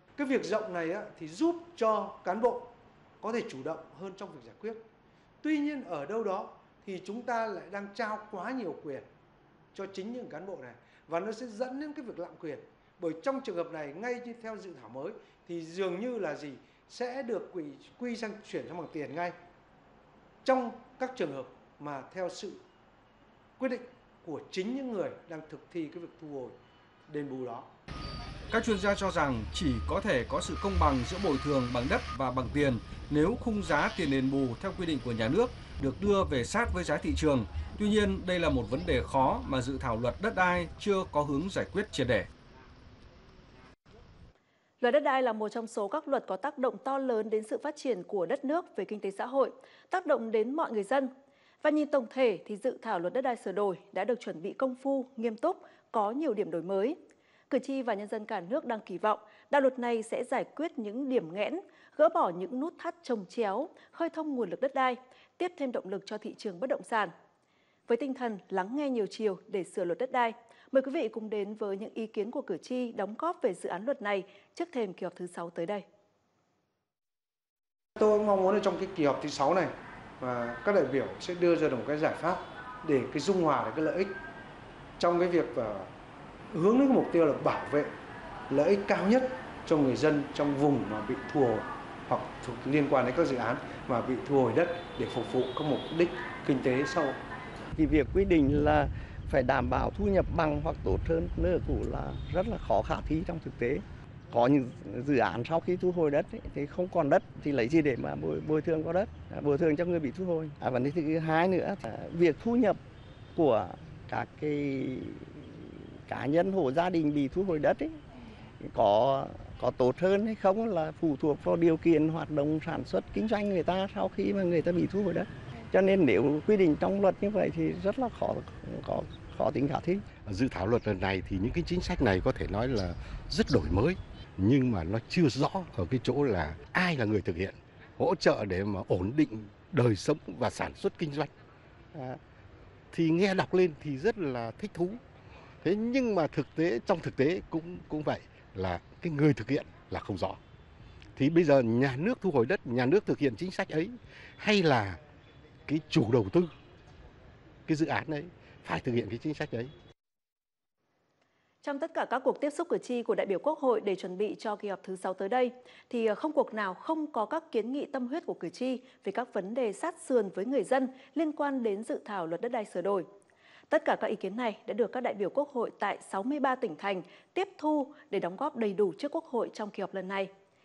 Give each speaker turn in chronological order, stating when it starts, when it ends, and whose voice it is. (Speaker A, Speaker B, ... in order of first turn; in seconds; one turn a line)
Speaker A: 0.2-4.8
Speaker A: 5.4-9.1
Speaker A: 9.7-19.4
Speaker A: 20.4-22.6
Speaker A: 23.6-26.6
Speaker A: 27.1-27.7
Speaker B: 28.5-42.3
Speaker C: 44.8-51.1
Speaker C: 51.6-57.0
Speaker C: 57.5-67.1
Speaker C: 67.9-75.8
Speaker A: 78.0-79.7
Speaker A: 80.2-84.2
Speaker A: 85.0-85.9
Speaker A: 86.5-87.9
Speaker A: 88.5-97.2
Speaker D: 97.8-112.8
Speaker D: 113.3-118.0
Speaker D: 118.6-130.1
Speaker E: 130.2-141.3
Speaker D: 141.9-142.2
Speaker E: 142.9-145.0
Speaker E: 145.6-150.4
Speaker E: 151.2-155.0
Speaker E: 155.7-156.5
Speaker E: 157.7-159.7
Speaker C: 161.6-173.1
Speaker C: 173.7-180.3